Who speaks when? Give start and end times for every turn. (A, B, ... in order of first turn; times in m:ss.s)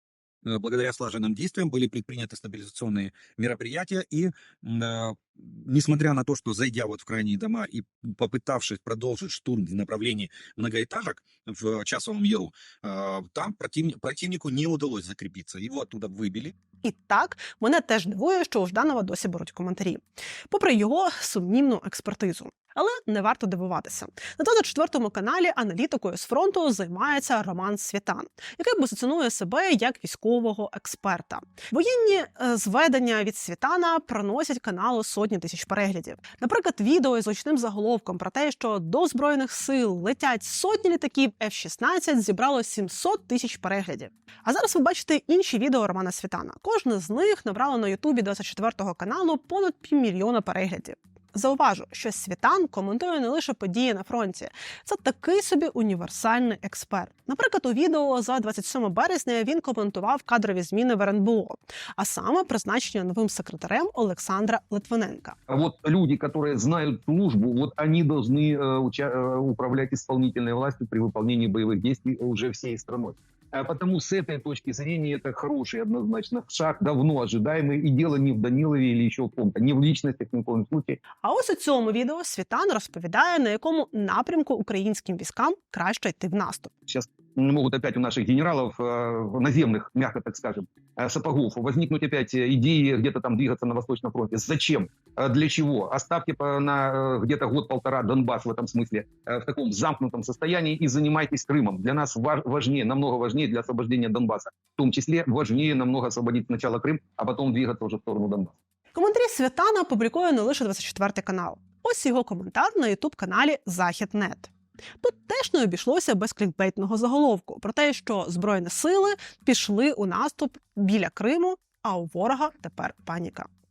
0:00.4-0:16.6 A
0:16.8-1:05.4 B
1:05.5-1:21.0 C
1:21.2-1:26.7 B
1:26.9-1:48.6 C
1:48.9-1:54.5 B
1:55.0-2:03.5 B